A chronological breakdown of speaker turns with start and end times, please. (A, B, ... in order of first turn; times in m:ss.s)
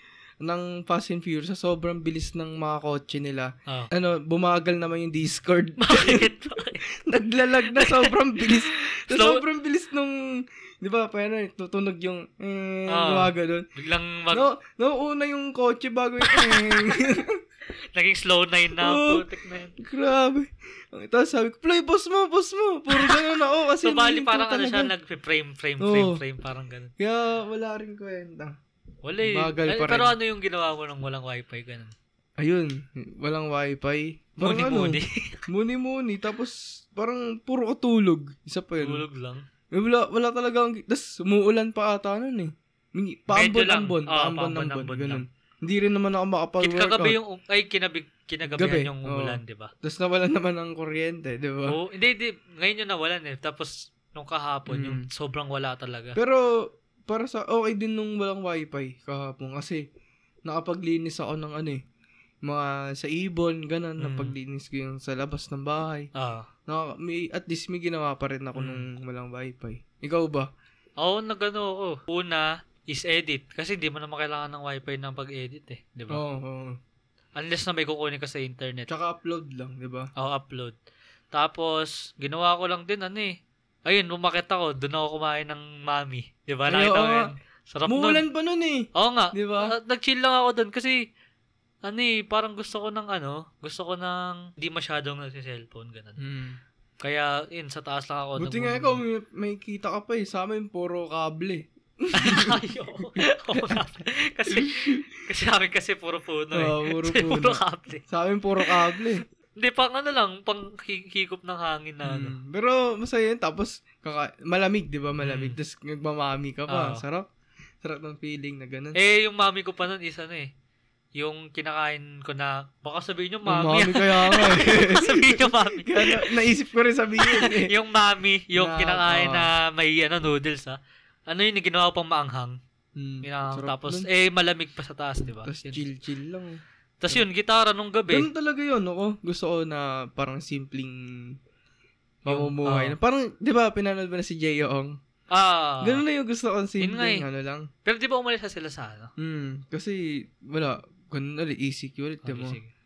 0:00.4-0:06.3 A
0:05.8-0:06.8 B
0:06.9-0:13.7 A
0:07.6-0:09.4 B
0:12.9-0:14.4 B
0:14.3-0:17.4 A
0:16.2-0:17.2 B
0:18.0-0:19.8 B
0:18.8-0:19.2 A
0:19.8-0:24.9 A
0:22.9-0:26.9 B
0:25.8-0:26.2 A
0:27.0-0:28.6 A
0:29.0-0:31.9 B
0:29.2-0:30.1 A
0:32.4-0:39.0 A
0:34.4-0:35.4 B
0:38.8-0:39.5 B
0:39.7-0:47.2 A
0:43.3-0:45.2 B
0:46.6-0:49.7 B
0:48.5-0:51.8 A
0:51.7-0:56.2 B
0:54.7-0:55.1 A
0:56.2-0:59.8 A
1:00.5-1:01.8 A
1:02.4-1:06.1 A
1:04.0-1:04.4 B
1:06.2-1:06.5 B
1:06.7-1:10.5 A
1:08.6-1:08.8 B
1:11.0-1:16.2 B
1:16.1-1:16.8 A
1:17.4-1:18.9 B
1:18.9-1:20.1 A
1:20.2-1:20.8 B
1:21.3-1:28.2 B
1:26.7-1:27.3 A
1:27.9-1:29.7 A
1:29.0-1:31.0 B
1:31.8-1:36.2 B
1:36.2-1:36.6 A
1:37.0-1:39.0 B
1:38.4-1:42.6 A
1:42.2-1:48.0 B
1:43.5-1:43.8 A
1:44.5-1:45.0 A
1:46.5-1:49.2 A
1:48.6-1:52.4 B
1:52.0-1:57.3 A
1:55.2-1:55.6 B
1:56.7-1:57.0 B
1:57.8-1:59.0 A
1:59.0-2:00.5 B
2:01.2-2:06.4 B
2:03.5-2:07.7 A
2:07.2-2:12.6 B
2:08.6-2:09.5 A
2:13.0-2:14.1 A
2:13.2-2:15.8 B
2:15.3-2:16.6 A
2:17.0-2:18.3 B
2:18.1-2:21.4 A
2:22.2-2:25.0 A
2:22.3-2:23.0 B
2:25.3-2:26.0 B
2:25.8-2:27.7 A
2:26.8-2:27.2 B
2:27.8-2:29.1 B
2:29.2-2:32.6 A
2:32.2-2:32.7 B